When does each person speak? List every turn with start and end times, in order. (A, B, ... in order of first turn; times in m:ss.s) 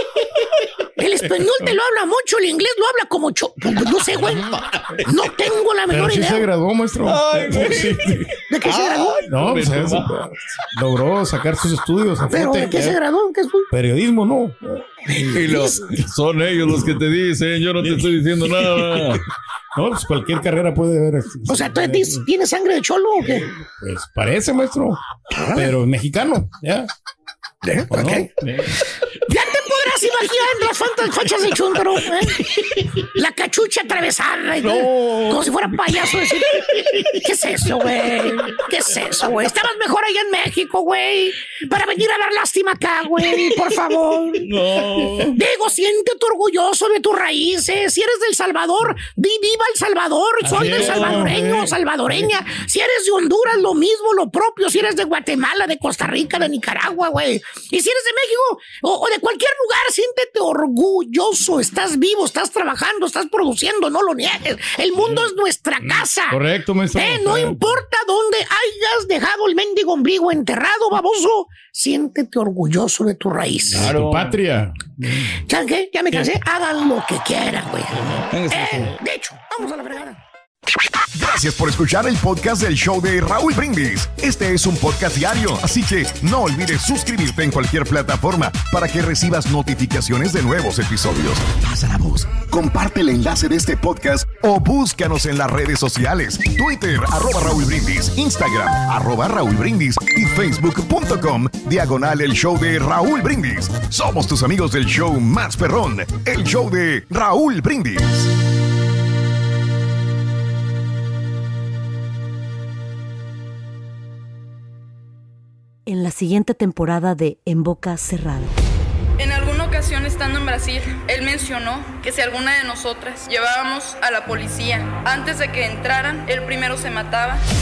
0:01.0-0:04.5 A
0:04.3-0:04.6 B
0:04.7-0:05.0 C
0:05.0-0:06.5 A
0:05.9-0:08.3 B
0:07.0-0:10.3 C
0:08.5-0:09.2 A
0:09.3-0:13.0 B
0:12.3-0:13.7 A
0:13.7-0:15.7 B
0:15.1-0:15.8 A
0:15.3-0:19.2 C
0:17.8-0:18.1 B
0:19.7-0:22.2 B
0:21.5-0:23.5 A
0:23.6-0:25.0 B
0:25.3-0:25.7 D
0:25.5-0:26.9 B
0:27.6-0:28.3 D
0:27.9-0:28.7 B
0:29.3-0:32.4 A
0:33.1-0:44.4 A
0:34.6-0:35.5 C
0:44.4-0:45.4 C
0:45.0-0:45.3 B
0:45.4-1:06.4 A
0:50.4-0:51.7 B
0:50.7-0:51.3 C
1:05.9-1:07.6 B
1:06.9-1:13.9 A
1:13.7-1:15.4 B
1:13.7-1:14.4 C
1:15.5-1:20.2 A
1:17.9-1:18.3 B
1:18.3-1:18.9 C
1:21.1-1:48.3 D
1:55.9-1:58.5 E
1:59.2-2:07.4 F